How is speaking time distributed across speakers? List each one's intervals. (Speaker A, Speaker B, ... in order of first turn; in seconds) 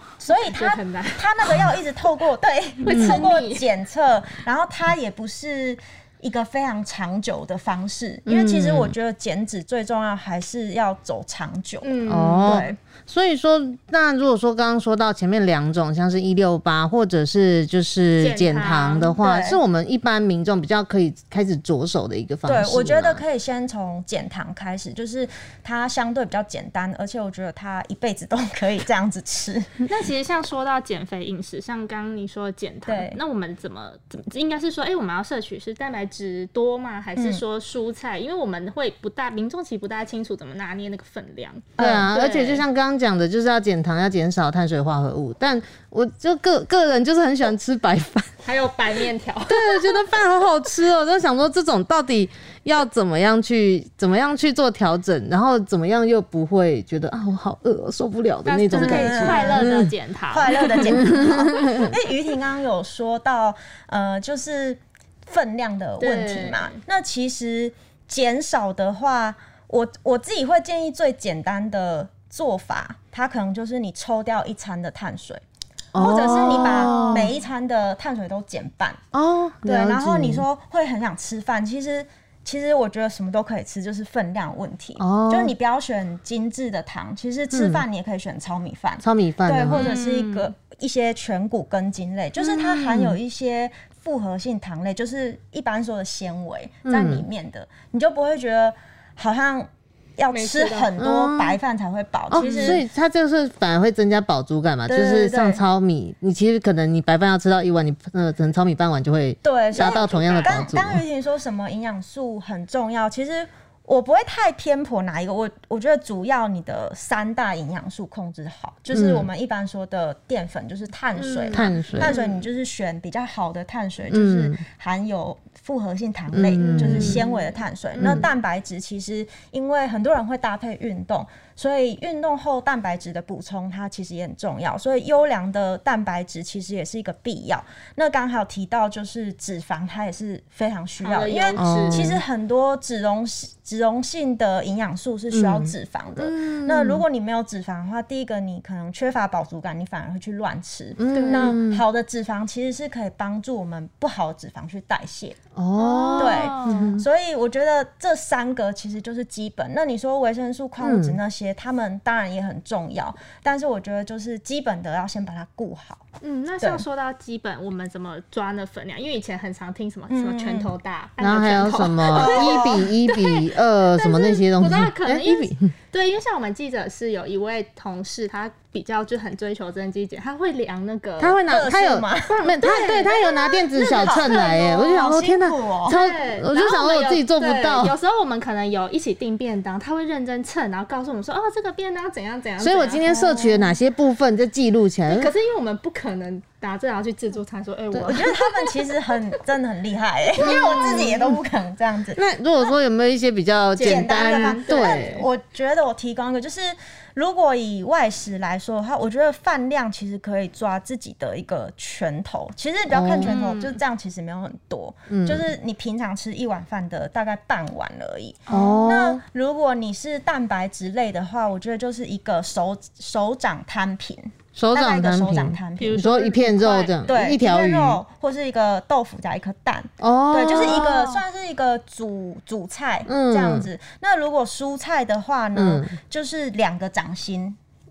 Speaker A: 0.2-11.9, 12.4-12.8, 19.2-19.6, 22.5-29.7, 32.9-33.2, 37.2-37.4, 41.8-42.1, 58.7-59.7, 60.3-75.4, 76.0-79.0, 79.7-102.8, 104.9-105.6, 109.4-155.4, 156.2-166.0, 170.1-170.7, 172.1-172.9, 181.5-186.0, 193.2-193.4, 198.1-202.2, 203.8-226.1, 227.1-237.6
Speaker B: 0.4-1.2, 2.8-3.7, 11.8-12.7, 18.2-19.2, 29.9-42.6, 48.4-50.0, 58.5-61.1, 66.0-66.8, 76.4-77.3, 89.8-90.5, 100.3-100.9, 102.4-102.8, 109.7-110.6, 121.4-122.4, 126.6-127.4, 141.0-142.1, 151.1-151.6, 155.8-157.0, 166.2-181.4, 182.3-183.2, 183.8-184.5, 185.9-193.6, 195.1-198.9, 200.4-201.2, 203.8-205.3, 213.2-213.8, 218.5-219.0, 225.8-227.1, 230.5-231.2
Speaker C: 2.9-3.2, 8.3-8.9, 12.1-23.2, 41.8-48.3, 49.5-59.9, 60.9-61.9, 75.9-77.3, 79.1-80.5, 85.0-85.5, 87.5-87.8, 89.0-89.9, 92.4-93.2, 96.9-97.2, 101.0-101.6, 102.3-111.0, 118.9-119.3, 121.5-122.2, 124.1-124.6, 126.3-127.2, 128.0-128.3, 141.6-142.2, 145.3-147.0, 151.0-151.8, 155.6-157.1, 160.8-161.2, 171.2-175.7, 181.2-188.0, 192.6-195.3, 197.9-198.2, 200.4-201.4, 202.2-205.3, 212.9-213.3, 215.1-215.5, 218.5-219.2, 224.6-228.0, 230.0-231.0, 233.1-233.7, 235.6-235.9